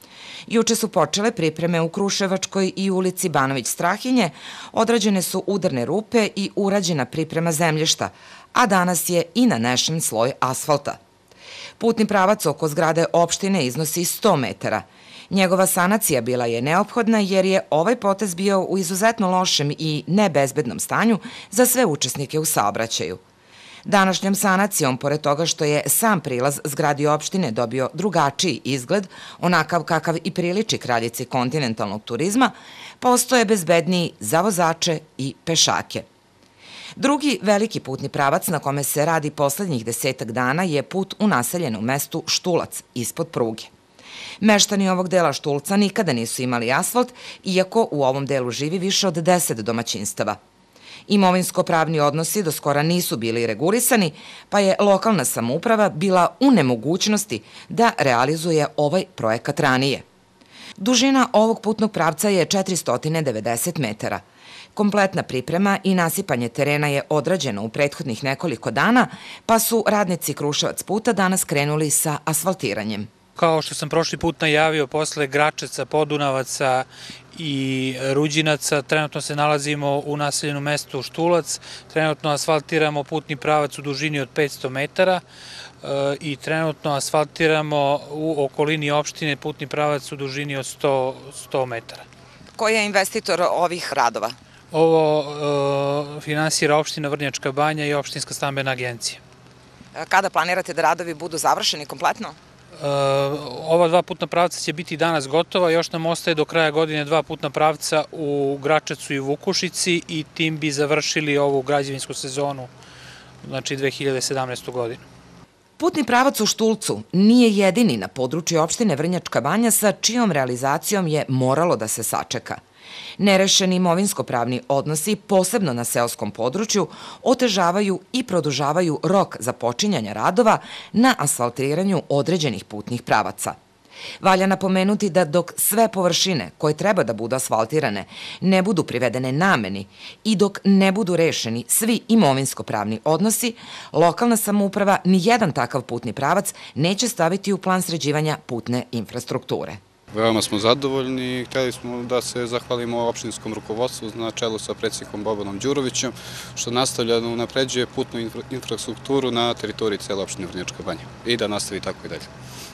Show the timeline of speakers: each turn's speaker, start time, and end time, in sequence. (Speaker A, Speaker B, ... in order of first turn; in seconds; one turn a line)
Speaker A: 0.5-11.0
Speaker A: 11.8-23.2
Speaker A: 23.9-36.0
Speaker A: 37.0-43.7
Speaker A: 44.4-50.4
Speaker A: 51.1-60.0
Speaker A: 60.8-64.2
Speaker A: 64.8-73.1
Speaker B: 73.4-85.2
Speaker B: 85.8-92.0
Speaker A: 92.6-94.3
Speaker B: 94.7-99.2
Speaker A: 99.9-102.4
Speaker B: 102.8-112.7
Speaker B: 113.4-115.0
Speaker A: 115.8-122.6
Speaker A: 123.2-133.6
Speaker A: 134.2-149.8
Speaker C: 150.1-162.3